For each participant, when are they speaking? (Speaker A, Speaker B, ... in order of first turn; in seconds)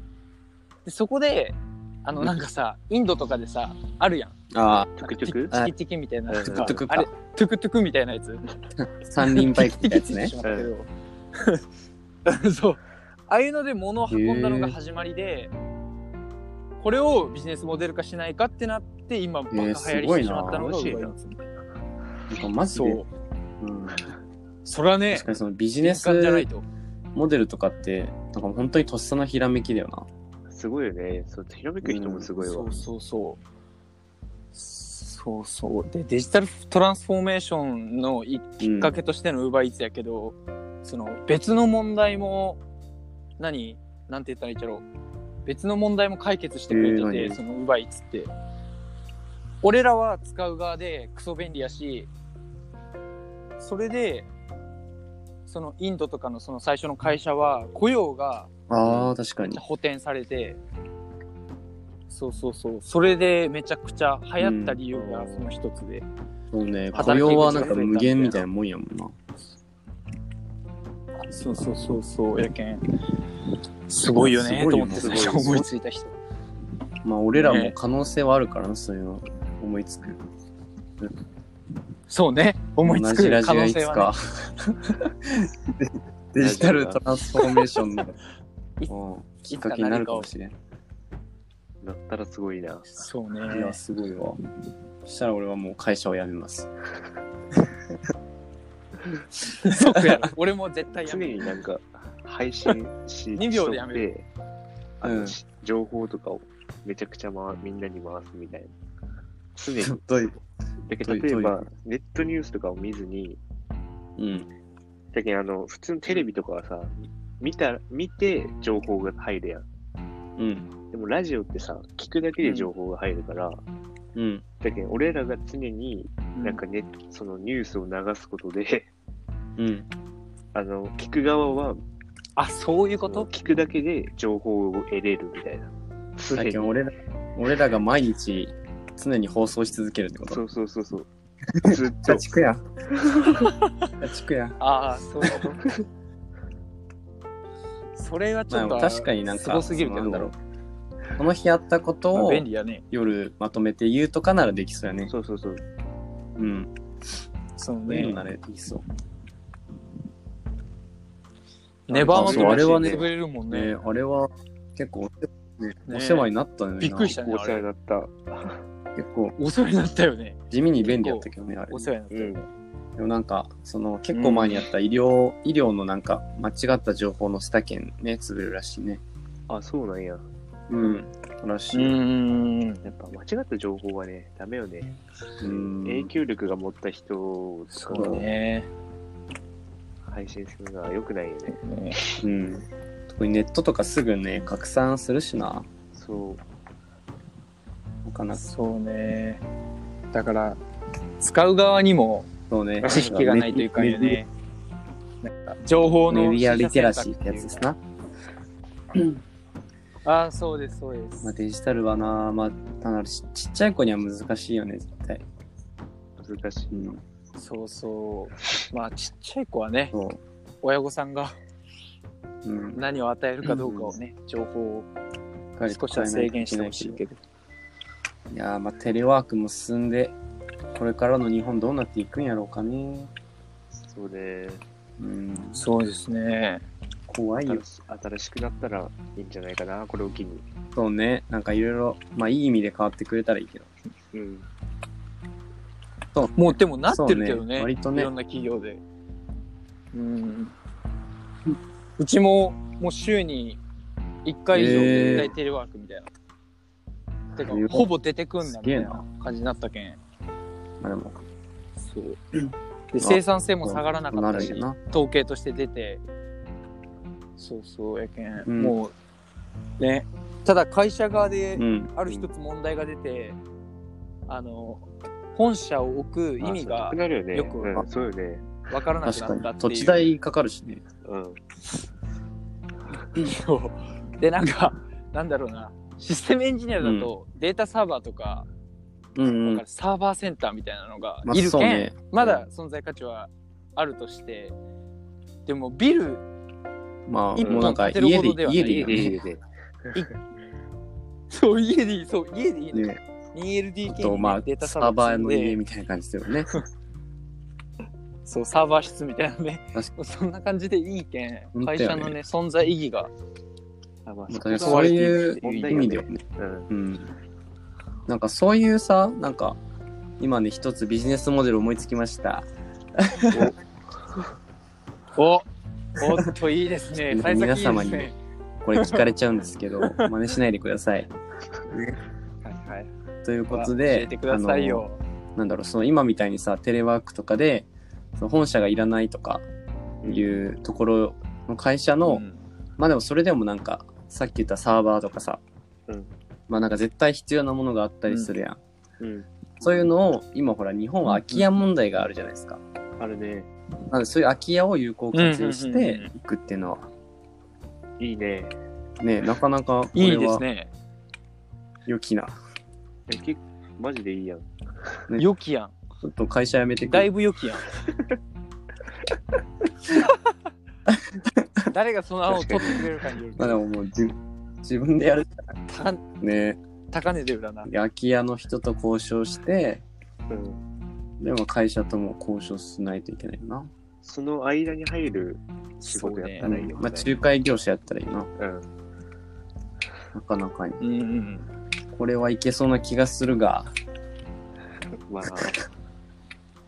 Speaker A: 0.8-4.3, 5.5-8.4, 9.2-11.6, 12.2-15.5, 16.8-21.4, 22.7-23.1, 24.6-25.3, 25.8-26.6, 32.4-33.4, 34.5-42.6, 43.4-44.8, 45.5-48.3, 49.6-52.1, 53.6-54.3, 55.5-58.5, 59.5-60.6, 62.1-66.1, 67.0-68.4, 71.3-72.8, 73.9-76.2, 77.3-77.7, 82.1-84.1, 89.5-90.3, 92.9-93.8, 99.5-101.4, 103.3-104.0, 122.4-122.7, 132.3-133.3, 144.6-145.6, 148.0-150.3, 152.1-152.8, 157.6-158.2, 161.9-163.7, 165.9-167.6, 169.4-172.5, 174.1-174.7, 180.8-181.1, 181.7-182.9, 187.7-188.7, 191.5-192.0, 198.3-199.4, 200.1-200.6, 201.2-202.3, 202.8-204.3, 205.2-207.6, 210.0-211.3, 217.4-219.9, 220.6-221.3, 222.7-224.9, 225.7-227.2, 235.6-236.6, 246.3-248.8, 249.9-250.5, 252.0-253.6, 254.2-256.1, 257.4-260.0, 261.8-262.2, 262.9-266.0, 267.4-268.9, 269.8-273.4, 274.3-277.9, 278.7-280.0, 283.1-288.5, 289.4-294.6, 295.4-296.2, 297.5-299.1, 301.3-305.6, 308.2-313.1, 314.6-316.0, 325.1-328.1, 328.7-329.1, 329.8-330.1, 332.4-332.9, 333.5-335.0, 342.0-342.4, 348.1-348.3, 351.1-351.4, 355.1-356.1, 359.9-360.7, 365.2-365.7, 366.8-367.7, 371.7-373.6, 375.7-376.0, 376.9-377.7, 385.8-386.5, 390.8-391.5
Speaker B: 4.5-5.7, 6.4-7.1, 8.8-10.3, 14.1-14.8, 19.5-20.7, 22.3-23.0, 23.6-24.0, 25.1-26.5, 27.1-30.1, 31.8-32.3, 38.6-39.0, 46.7-47.4, 58.7-59.6, 64.4-64.8, 66.5-69.1, 74.1-75.6, 77.0-80.2, 82.8-88.2, 88.9-90.5, 93.5-94.4, 95.0-96.7, 99.7-100.2, 105.0-105.3, 109.8-110.3, 111.0-111.6, 114.2-114.5, 120.4-120.7, 124.1-124.4, 129.6-129.9, 136.3-140.4, 141.6-142.6, 144.0-144.6, 145.2-145.5, 148.5-150.3, 151.2-155.1, 156.3-156.7, 157.9-158.8, 161.9-167.2, 168.9-169.3, 170.5-171.9, 173.0-179.0, 180.7-182.0, 185.4-186.1, 187.9-188.3, 192.2-195.7, 198.0-198.5, 202.5-204.2, 206.1-207.8, 211.2-215.2, 216.7-217.0, 219.9-220.2, 222.4-222.8, 225.6-227.0, 228.3-230.2, 230.7-233.1, 235.0-235.6, 237.1-237.6, 240.7-243.7, 246.1-248.1, 254.5-255.3, 257.4-257.9, 258.4-259.0, 260.8-261.1, 263.0-264.8, 268.4-268.8, 271.6-271.9, 279.0-280.8, 286.8-287.1, 289.1-289.6, 291.2-292.0, 297.1-299.2, 302.7-303.0, 303.9-306.5, 311.5-312.1, 314.3-317.1, 318.1-319.6, 320.2-323.5, 327.0-328.1, 328.6-331.1, 331.7-332.0, 333.2-334.8, 335.4-339.4, 340.0-342.2, 342.8-345.4, 346.5-348.6, 349.6-352.6, 353.9-356.9, 359.0-360.4, 361.9-362.4, 366.0-367.1, 370.9-371.7, 372.3-372.8, 373.4-375.6, 376.2-376.6, 377.6-379.8, 381.2-383.7, 386.4-388.3, 390.1-390.8, 391.9-393.7
Speaker C: 4.9-5.5, 6.3-6.8, 10.4-10.7, 20.4-21.1, 30.5-32.8, 58.9-59.1, 64.9-65.5, 66.9-67.8, 74.9-75.7, 86.4-87.0, 91.8-92.9, 101.0-104.2, 105.0-108.7, 109.5-110.0, 110.8-113.4, 115.1-119.7, 120.9-123.6, 124.6-128.9, 130.5-131.8, 133.0-136.7, 140.3-141.1, 141.6-142.2, 142.9-143.4, 155.1-155.6, 162.1-163.1, 167.2-168.6, 172.1-172.4, 179.5-180.2, 182.8-188.2, 190.1-191.6, 195.9-196.4, 202.8-203.1, 216.2-216.8, 233.7-234.6, 237.4-240.4, 244.1-244.4, 254.6-255.3, 276.4-278.7, 281.0-281.4, 292.2-292.4, 297.4-297.8, 298.6-299.4, 314.1-316.7, 323.3-323.6, 340.0-340.4, 349.0-349.8, 353.0-353.5, 358.0-358.5, 363.1-364.9, 380.3-380.6, 384.0-387.2, 388.4-388.7, 395.1-395.6